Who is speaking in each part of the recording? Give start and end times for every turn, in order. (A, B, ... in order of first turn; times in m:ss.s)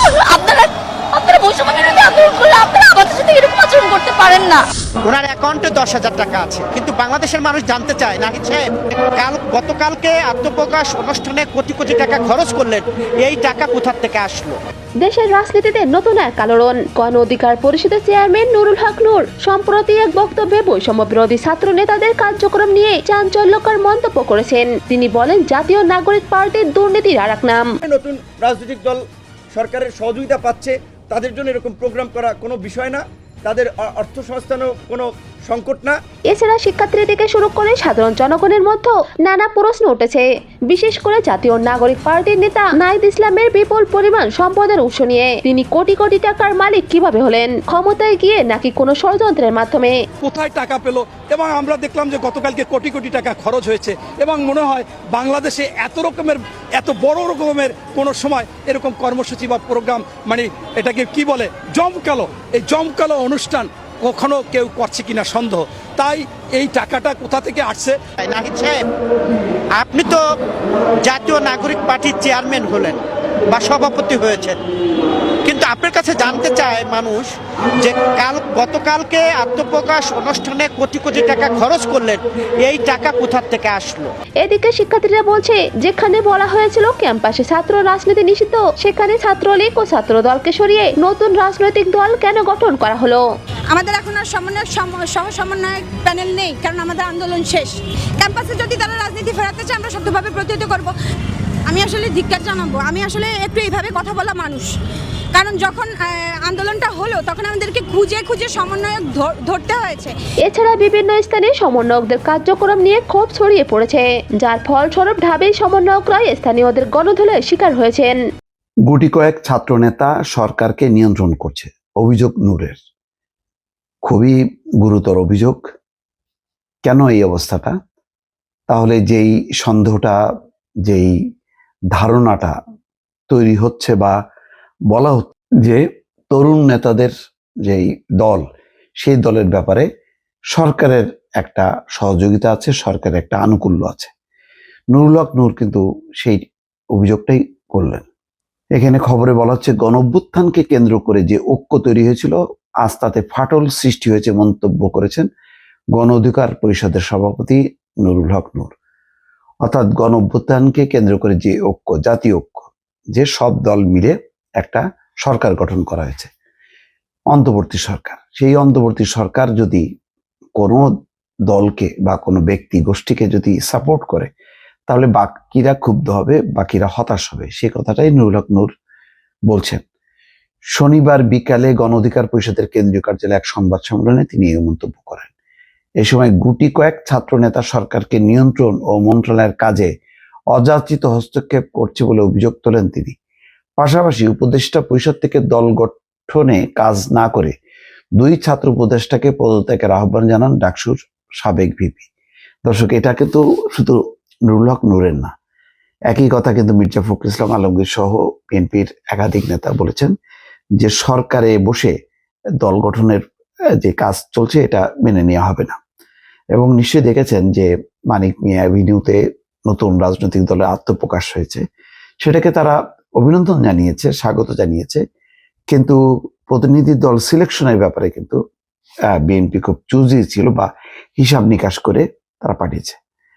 0:00.3-0:00.7 A
0:01.3-0:04.6 A
0:05.0-0:08.6 B
0:09.1-0:14.6 B
0:15.0-0:27.7 C
0:27.8-0:29.0 D
0:29.5-0:36.0 D
0:36.3-0:50.0 C
0:50.2-1:08.0 E
1:08.2-1:08.8 B
1:09.8-1:10.2 B
1:11.0-1:14.6 B
1:15.4-1:24.1 B
1:24.4-1:33.2 C
1:33.7-1:40.9 F
1:41.7-1:44.7 F
1:45.3-1:50.1 F
1:50.4-1:58.2 C
1:58.9-2:02.8 G
2:04.0-2:05.6 G
2:06.8-2:07.8 G
2:08.7-2:10.2 G
2:10.8-2:11.2 G
2:11.9-2:12.6 G
2:13.3-2:14.2 G
2:14.9-2:17.1 G
2:17.6-2:18.4 G
2:19.0-2:19.9 G
2:20.5-2:24.1 G
2:24.9-2:26.4 G
2:27.0-2:28.1 G
2:28.8-2:35.3 G
2:36.0-2:38.7 G
2:39.6-2:46.3 G
2:47.3-2:49.8 G
2:50.6-2:50.9 G
2:51.5-2:54.3 G
2:54.9-2:58.7 G
2:59.5-2:59.8 G
3:00.8-3:05.3 G
3:06.0-3:09.9 G
3:10.5-3:13.2 G
3:13.8-3:17.5 G
3:18.2-3:22.1 G
3:22.6-3:25.3 G
3:26.1-3:30.1 G
3:30.8-3:31.9 G
3:32.6-3:33.2 G
3:33.8-3:35.8 G
3:36.6-3:41.6 G
3:42.2-3:45.0 G
3:45.7-3:48.4 G
3:49.1-3:53.0 G